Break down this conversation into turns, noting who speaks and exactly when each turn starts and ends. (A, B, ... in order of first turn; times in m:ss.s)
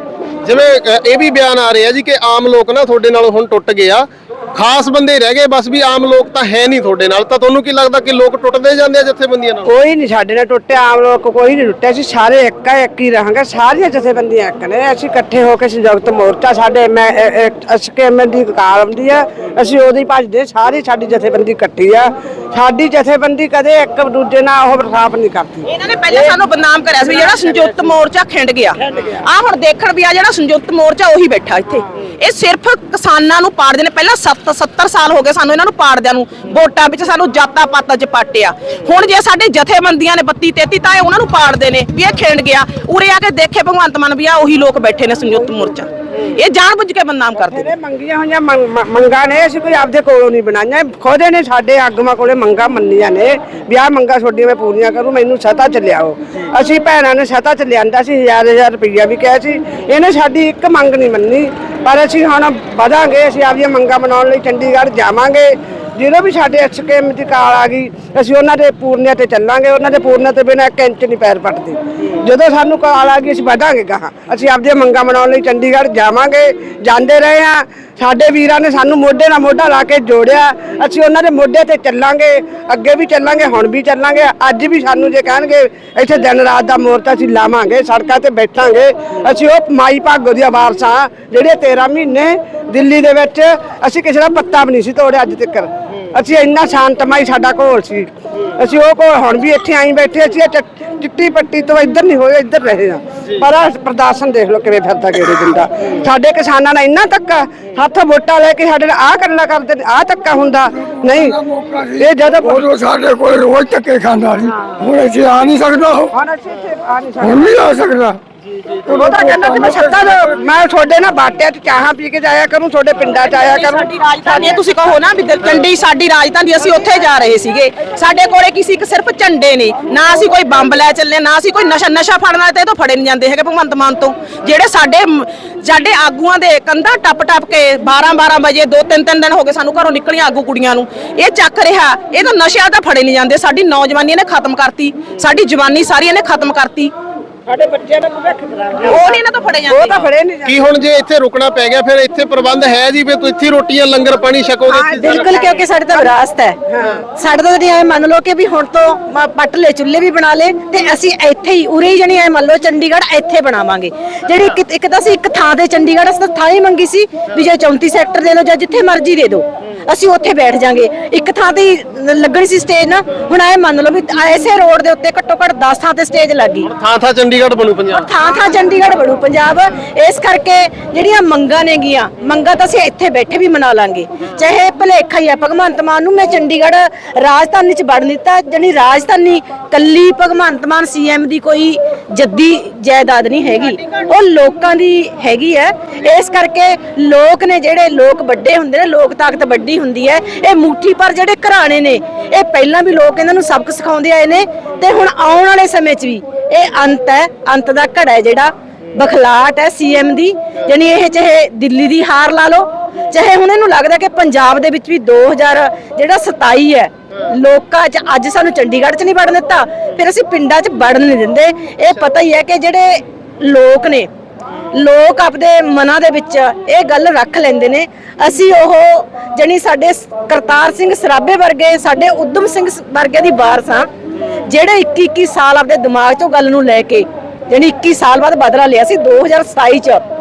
0:00.4-0:09.7 A
0:09.6-0:25.6 B
0:25.6-0:47.7 C
0:28.9-0:29.2 B
0:47.3-1:52.7 B
1:52.8-1:56.0 D
1:54.5-1:54.9 B
1:56.1-1:57.7 B
1:57.4-1:58.2 D
1:58.9-2:04.6 B
2:03.3-2:26.9 C
2:27.5-2:30.6 B
2:28.9-2:30.0 C
2:30.4-2:35.4 A
2:34.7-2:36.1 B
2:35.0-2:56.7 E
2:36.7-2:37.0 B
2:56.6-2:58.1 A
2:57.9-3:44.1 E
3:44.7-3:53.8 E
3:54.5-4:00.0 E